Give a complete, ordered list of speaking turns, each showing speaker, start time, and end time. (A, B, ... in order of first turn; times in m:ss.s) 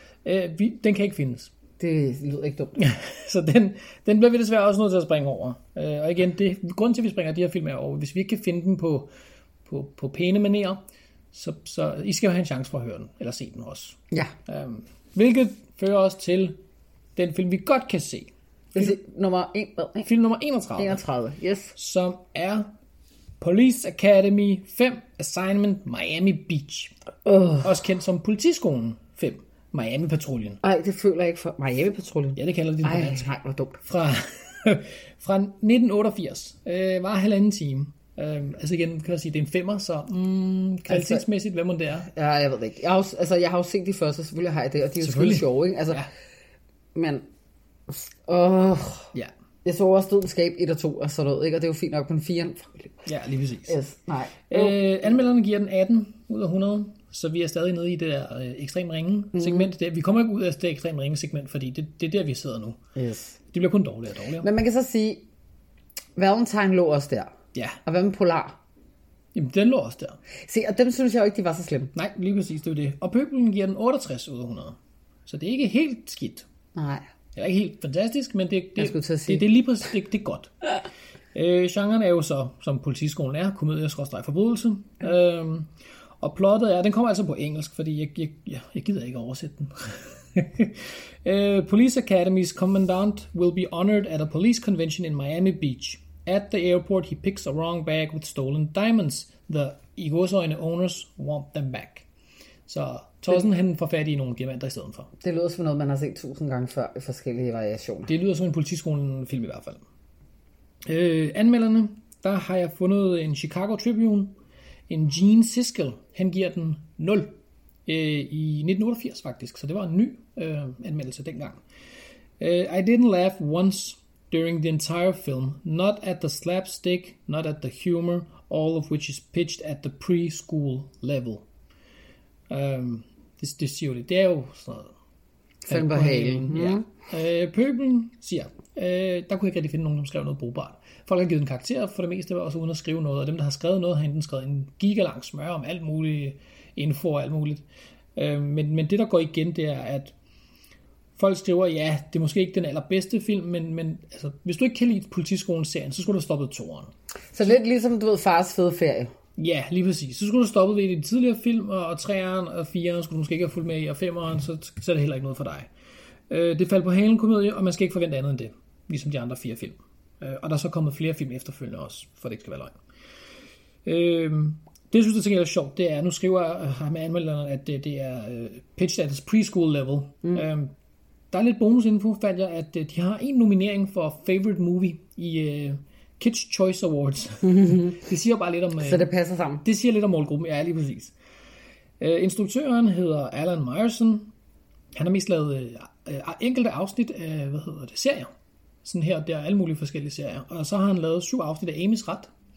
0:00.2-0:01.5 A
0:01.8-0:02.8 B
0:02.8-0:09.1 A
0:09.6-0:10.8 A
0:11.3-0:16.6 A
0:17.2-0:18.9 A
0:18.7-0:20.1 B
0:20.0-0:21.0 A
0:20.8-0:21.8 B
0:21.8-0:22.7 A
0:23.4-0:26.9 A
0:27.2-0:27.7 B
0:27.6-0:30.6 A
0:30.6-0:33.8 B
0:32.3-0:33.3 A
0:33.8-0:42.1 A
0:40.9-0:41.2 B
0:42.1-0:46.0 B
0:45.0-0:46.1 A
0:46.9-0:47.3 B
0:47.9-0:49.1 B
0:49.6-0:53.0 B
0:53.0-0:53.8 A
0:53.7-0:54.8 B
0:54.5-1:02.8 A
0:59.3-0:59.7 B
1:03.0-1:03.4 B
1:03.5-1:04.5 A
1:04.4-1:05.2 B
1:06.2-1:07.3 B
1:07.5-1:07.8 A
1:07.8-1:08.6 B
1:09.3-1:10.2 A
1:10.5-1:11.9 B
1:11.9-1:16.4 A
1:16.7-1:17.0 B
1:17.4-1:20.7 A
1:18.8-1:19.5 B
1:21.3-1:25.7 A
1:26.2-1:42.0 A
1:42.7-1:45.1 A
1:45.2-1:48.1 B
1:48.1-1:49.8 A
1:50.9-1:54.4 A
1:54.9-2:01.6 A
2:02.4-2:11.4 A
2:12.5-2:14.9 A
2:15.6-2:16.9 B
2:15.7-2:27.6 A
2:28.2-2:30.1 A
2:31.2-2:36.9 A
2:37.3-2:39.1 B
2:39.4-2:45.7 A
2:46.3-2:52.7 A
2:53.8-3:00.7 A
3:01.3-3:09.1 A
3:07.4-3:08.0 B
3:08.8-3:09.6 B
3:09.6-3:11.1 A
3:12.0-3:14.3 A
3:14.9-3:18.3 A
3:18.8-3:22.3 A